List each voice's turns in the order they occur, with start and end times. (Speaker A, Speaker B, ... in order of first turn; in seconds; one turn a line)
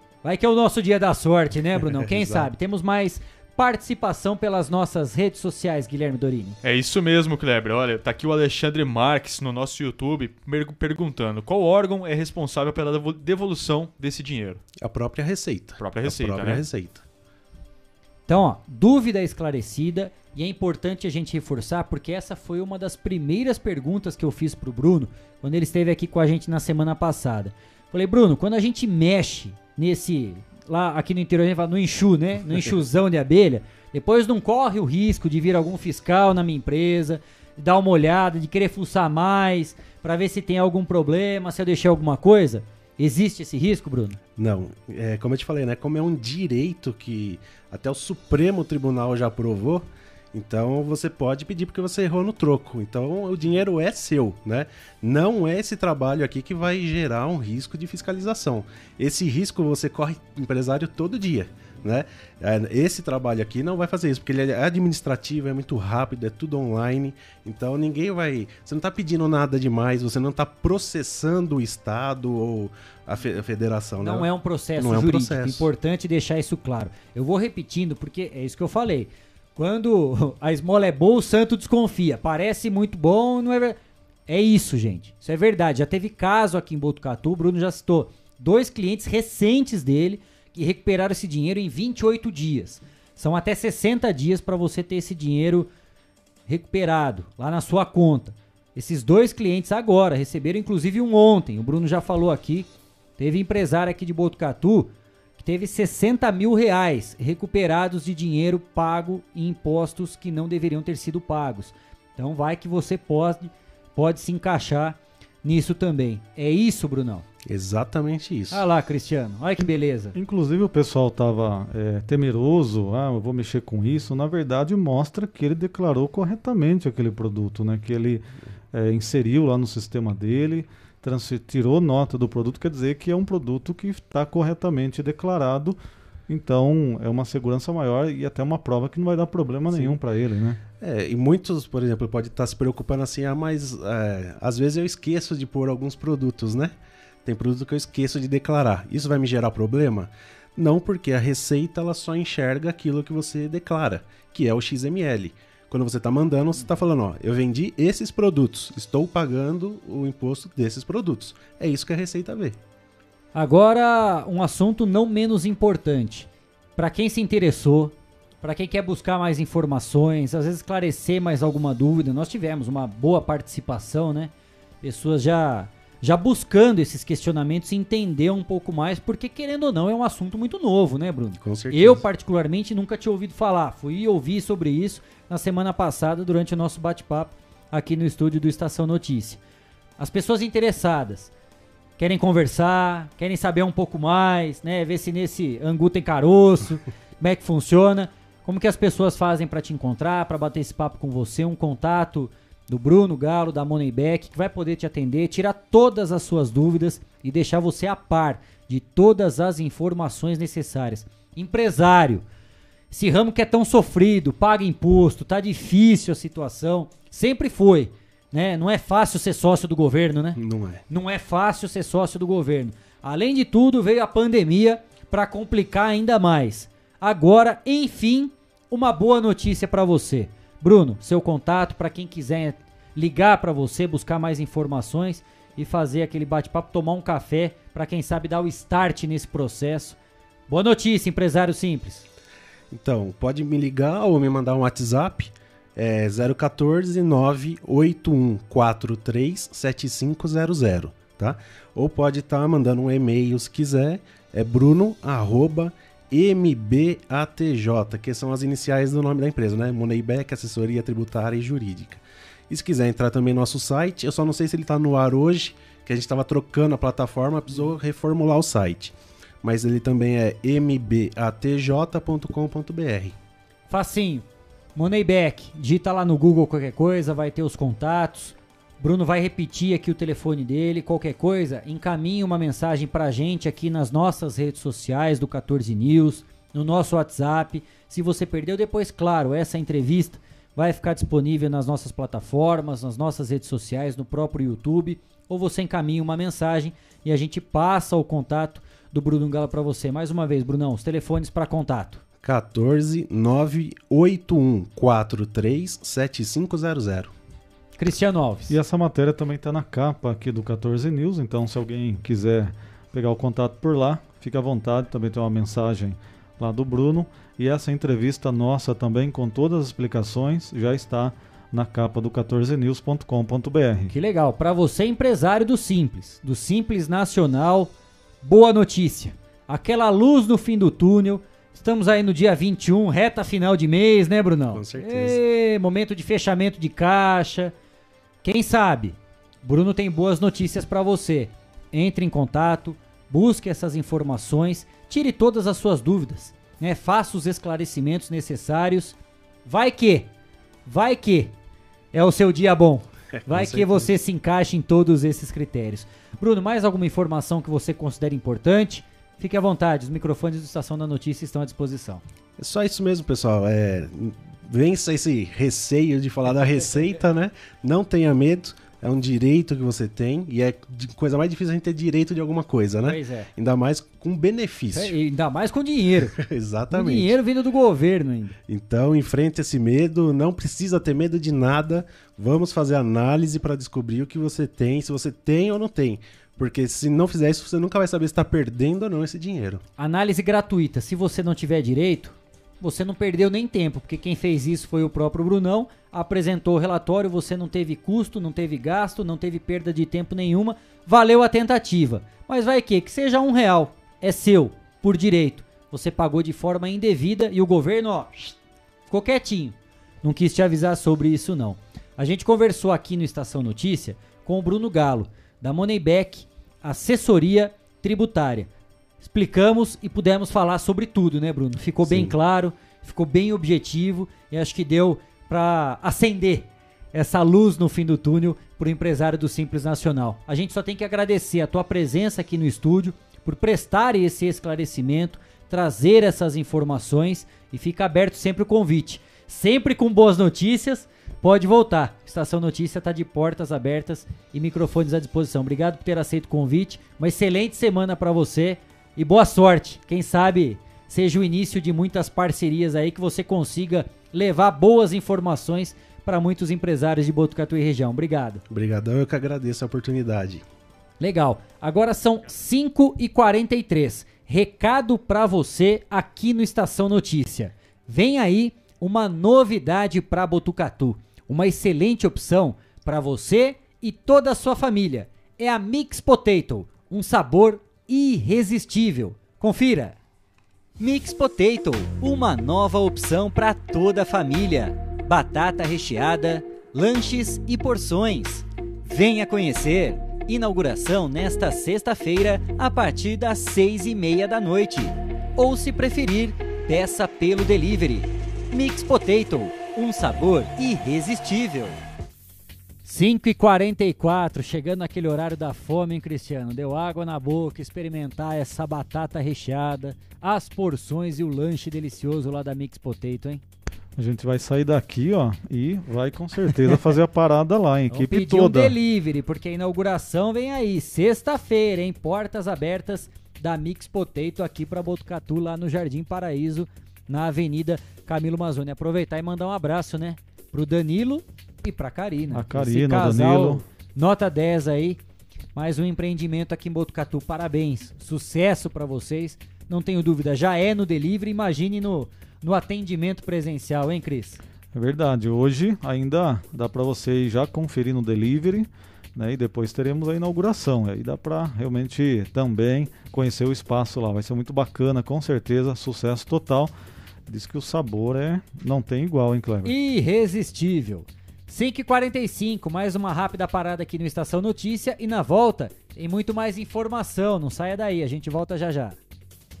Speaker A: 0.2-6.6
Speaker B: 2.1-2.5
Speaker C: 6.6-14.6
Speaker B: 14.8-17.0
Speaker C: 15.8-16.7
Speaker A: 18.3-44.2
Speaker B: 44.4-75.7
Speaker A: 74.0-95.7
Speaker A: 96.5-117.2
Speaker B: 117.5-118.6
Speaker A: 118.5-120.2
Speaker D: 120.1-140.6
Speaker B: 140.8-162.6
Speaker A: 163.3-174.3
Speaker A: 174.8-189.4
Speaker B: 181.4-182.0
Speaker A: 190.0-191.3
Speaker A: 192.0-212.2
Speaker A: 212.9-240.0
Speaker B: 220.4-220.8
Speaker A: 240.5-242.1
Speaker B: 242.7-273.1
Speaker A: 273.7-302.0
Speaker B: 302.2-307.1
Speaker A: 307.8-308.6
Speaker D: 308.5-323.9
Speaker A: 323.9-337.5
Speaker B: 334.5-335.2
Speaker A: 338.2-350.1
Speaker A: 350.6-351.3
Speaker A: 351.9-362.0
Speaker B: 353.2-353.9
Speaker B: 362.4-374.9
Speaker A: 372.8-373.3
Speaker A: 374.7-376.2
Speaker B: 376.1-377.2
Speaker A: 376.7-378.3
Speaker B: 378.5-389.6
Speaker A: 389.8-408.4
Speaker A: 408.9-418.5
Speaker A: 419.0-458.4
Speaker B: 421.8-422.1
Speaker B: 458.5-460.4
Speaker A: 461.0-479.9
Speaker A: 480.8-501.8
Speaker A: 502.8-513.4
Speaker D: 514.0-518.8
Speaker A: 517.9-535.0
Speaker D: 532.3-533.6
Speaker A: 535.5-544.4
Speaker D: 544.7-556.7
Speaker D: 557.3-559.7
Speaker A: 559.6-569.0